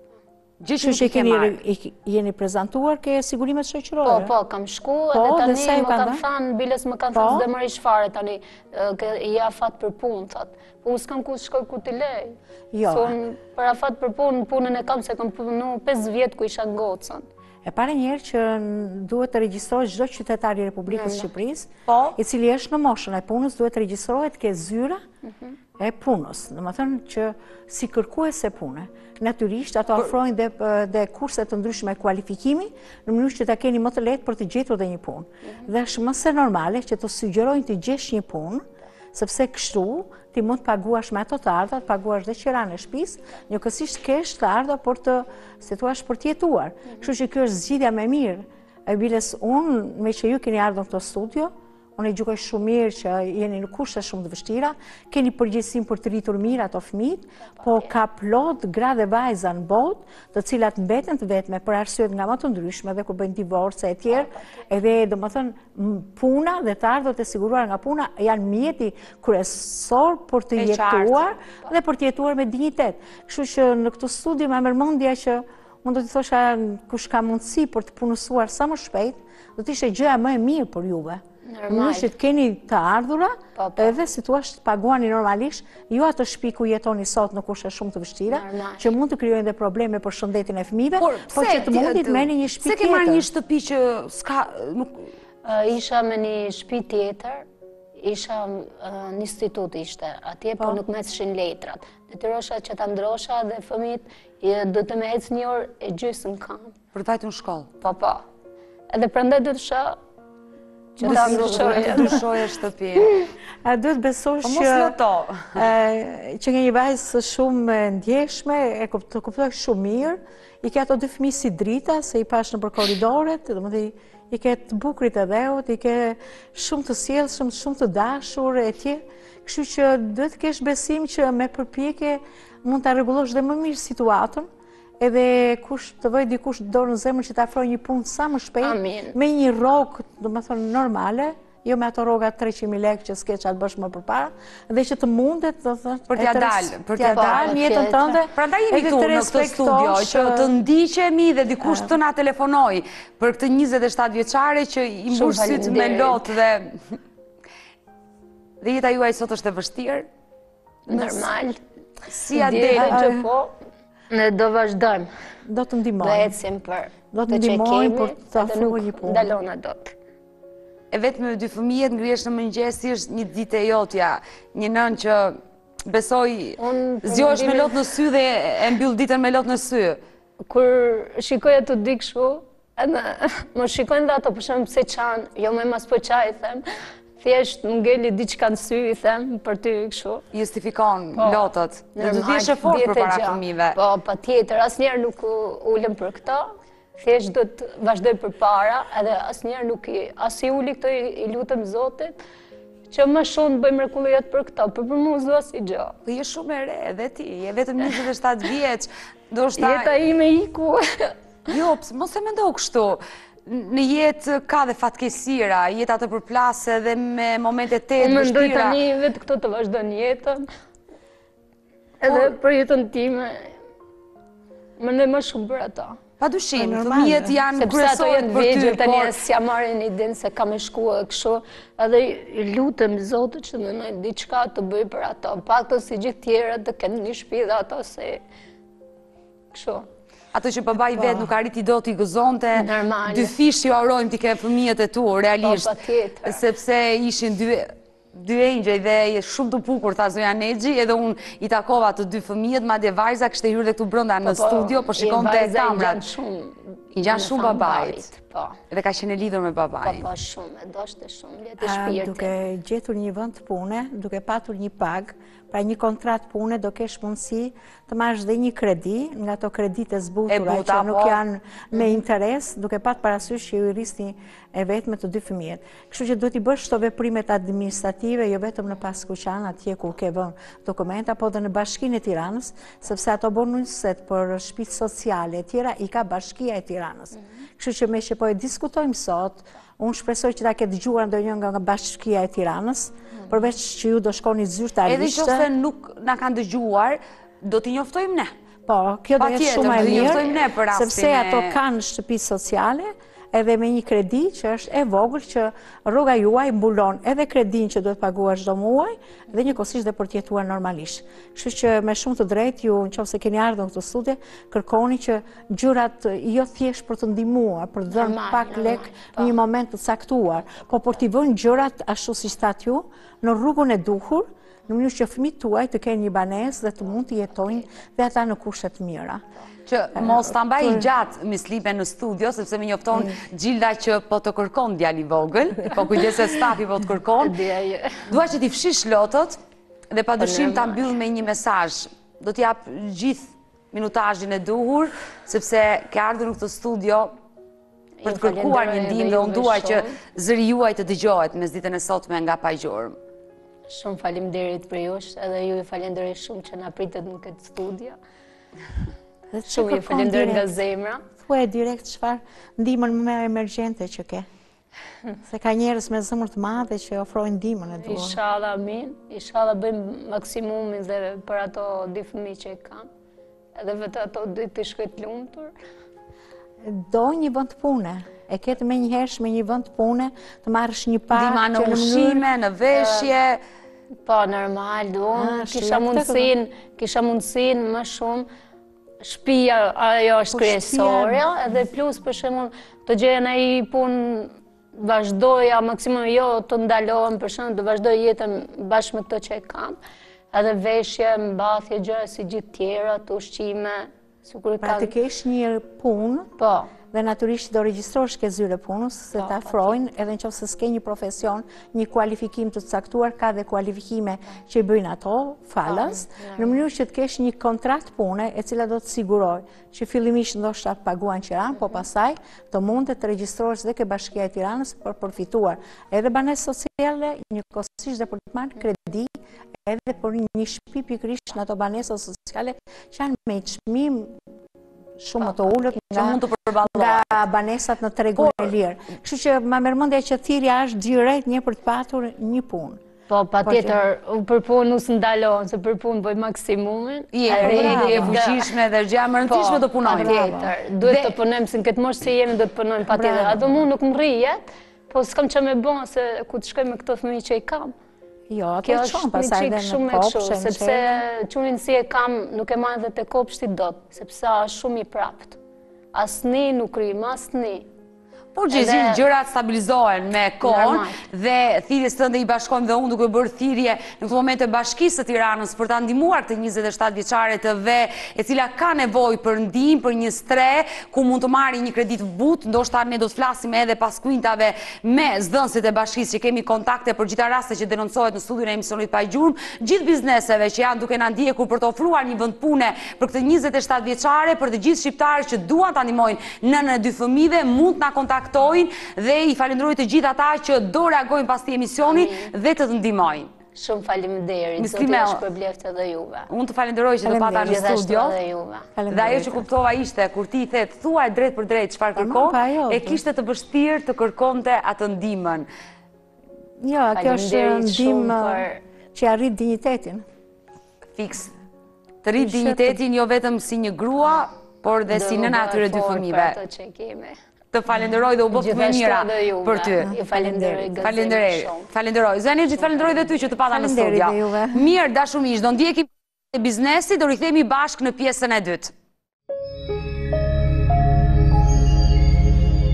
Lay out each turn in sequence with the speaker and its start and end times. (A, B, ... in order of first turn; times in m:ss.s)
0:00.6-0:01.6 A
0:00.8-0:04.3 B
0:04.0-0:17.3 C
0:05.1-0:06.2 B
0:07.1-0:07.5 B
0:12.7-0:13.2 B
0:17.6-0:25.0 B
0:20.9-0:21.3 C
0:21.9-0:22.2 A
0:25.2-0:25.5 C
0:25.8-1:33.3 B
0:57.5-0:57.9 C
1:04.2-1:04.6 C
1:10.6-1:11.2 A
1:21.5-1:22.1 C
1:23.6-1:23.9 C
1:28.3-1:28.9 C
1:31.0-1:35.1 A
1:35.4-1:37.4 C
1:38.0-1:46.7 C
1:46.9-1:47.7 A
1:47.8-1:48.2 C
1:48.9-1:50.0 C
1:51.0-1:52.2 C
1:51.0-1:52.2 B
1:51.0-1:53.2 A
1:53.6-1:55.0 B
1:54.4-1:55.6 A
1:55.5-2:14.5 B
2:15.0-2:30.5 B
2:18.6-2:19.2 C
2:26.1-2:37.0 A
2:27.1-2:28.1 C
2:31.6-2:31.9 B
2:35.1-2:36.3 C
2:38.6-2:40.1 A
2:40.9-2:41.6 C
2:42.1-2:43.0 A
2:42.3-2:43.5 C
2:42.7-2:43.3 B
2:44.1-2:45.1 C
2:45.4-2:46.4 B
2:46.0-2:49.9 C
2:47.1-2:49.4 B
2:50.9-3:00.0 A
2:56.6-2:57.8 C
3:00.5-3:06.6 C
3:07.2-3:10.2 C
3:10.3-3:13.8 A
3:11.2-3:11.4 C
3:12.0-3:22.2 C
3:22.9-3:25.9 C
3:26.0-3:29.9 A
3:29.6-3:31.1 C
3:31.5-3:38.8 A
3:38.0-3:40.4 C
3:42.0-3:43.5 C
3:42.1-3:42.4 A
3:44.8-3:46.0 C
3:46.2-3:49.1 A
3:46.6-3:47.3 B
3:47.6-3:58.2 C
3:59.5-3:59.9 C
4:00.3-4:16.0 A
4:01.0-4:01.3 B
4:02.5-4:03.3 C
4:05.4-4:06.4 C
4:14.2-4:18.6 C
4:17.0-4:18.0 A
4:18.7-4:20.1 A
4:19.8-4:22.3 C
4:21.6-4:55.5 B
4:30.3-4:31.2 A
4:54.8-4:58.3 A
4:58.7-5:29.2 B
4:59.2-5:01.6 A
5:17.9-5:19.3 C
5:29.7-5:37.4 A
5:30.0-5:30.9 B
5:37.2-5:38.1 C
5:38.1-5:39.4 A
5:39.9-5:47.1 A
5:40.2-5:40.9 C
5:48.0-5:49.9 C
5:48.0-5:53.0 A
5:53.7-5:58.0 C
5:59.3-6:00.6 B
5:59.5-6:01.0 C
6:01.2-6:04.3 B
6:05.2-6:08.2 B
6:07.8-6:12.9 C
6:13.5-6:15.5 C
6:16.6-6:22.2 B
6:21.1-6:23.4 A
6:22.7-6:23.1 C
6:24.0-6:28.3 C
6:25.1-6:26.3 B
6:29.0-6:39.8 C
6:30.3-6:31.2 B
6:40.3-6:44.9 C
6:44.6-6:46.3 B
6:46.4-6:46.7 C
6:46.9-7:14.2 B
6:49.2-6:49.8 C
6:55.6-6:56.6 C
7:15.0-7:22.8 B
7:15.7-7:17.2 A
7:18.2-7:18.5 A
7:23.1-7:28.4 C
7:23.4-7:23.8 B
7:27.1-7:30.2 A
7:27.3-7:28.3 B
7:29.3-7:37.7 C
7:29.8-7:30.5 B
7:30.8-7:31.2 A
7:32.9-7:33.7 B
7:38.3-7:41.0 B
7:38.6-7:45.4 C
7:45.9-7:47.7 C
7:48.3-8:23.3 A
7:48.5-7:49.0 C
7:50.4-7:51.0 C
8:21.8-8:22.3 C
8:23.5-8:26.3 C
8:24.6-8:25.2 A
8:26.3-8:28.2 A
8:27.0-8:27.7 B
8:27.4-8:28.7 C
8:28.8-8:29.5 B
8:28.9-8:35.5 A
8:31.9-8:33.0 B
8:36.6-8:40.0 B
8:36.9-8:38.6 C
8:41.0-8:41.3 A
8:42.0-8:46.4 A
8:42.2-8:42.8 B
8:44.9-8:47.1 C
8:47.5-8:49.9 A
8:48.3-8:51.7 C
8:49.8-8:50.9 B
8:50.8-8:58.7 A
8:52.6-8:52.9 C
8:53.5-8:54.7 B